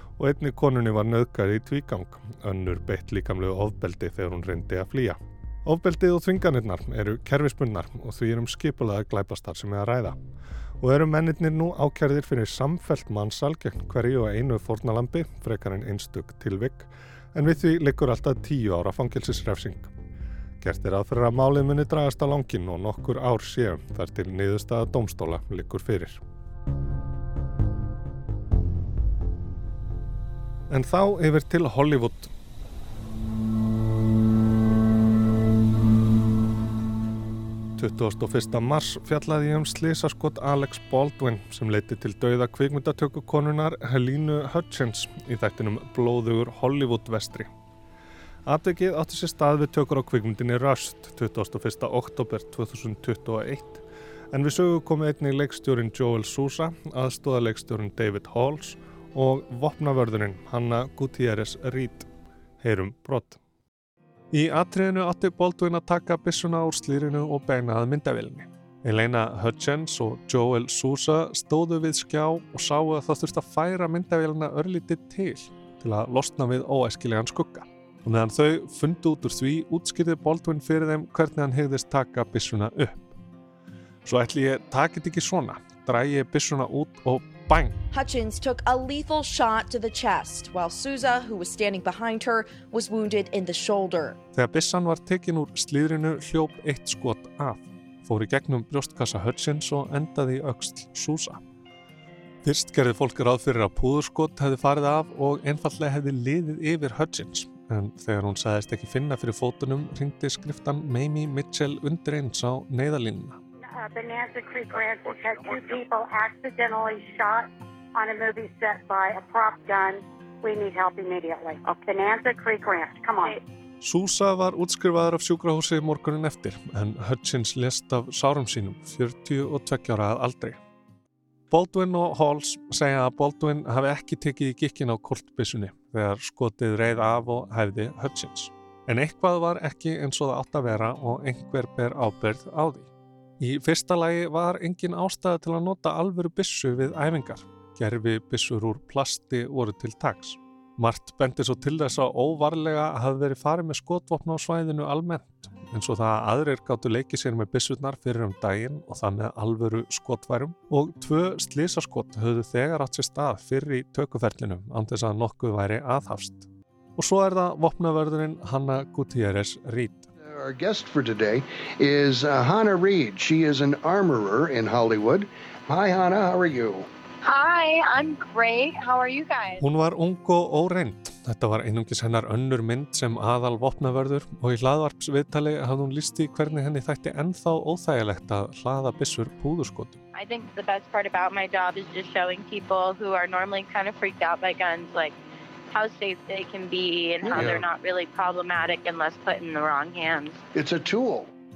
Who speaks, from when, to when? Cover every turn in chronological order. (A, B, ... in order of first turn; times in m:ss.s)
0:00.2-0:10.2 A
0:10.8-0:19.9 A
0:20.6-0:26.2 A
0:30.7-0:32.3 A
0:37.8-0:47.5 A
0:48.5-1:02.1 A
1:02.6-1:03.4 A
1:04.3-1:23.0 A
1:24.0-1:27.8 A
1:27.9-1:34.2 B
1:34.3-1:41.4 A
1:42.4-1:53.4 A
1:53.7-2:03.4 C
2:03.8-2:10.6 A
2:11.5-2:50.1 A
2:50.2-2:56.9 D
2:57.2-2:59.6 E
2:59.6-3:10.0 A
3:10.2-3:15.2 E
3:15.7-3:20.4 E
3:17.2-3:17.7 D
3:20.6-3:21.3 D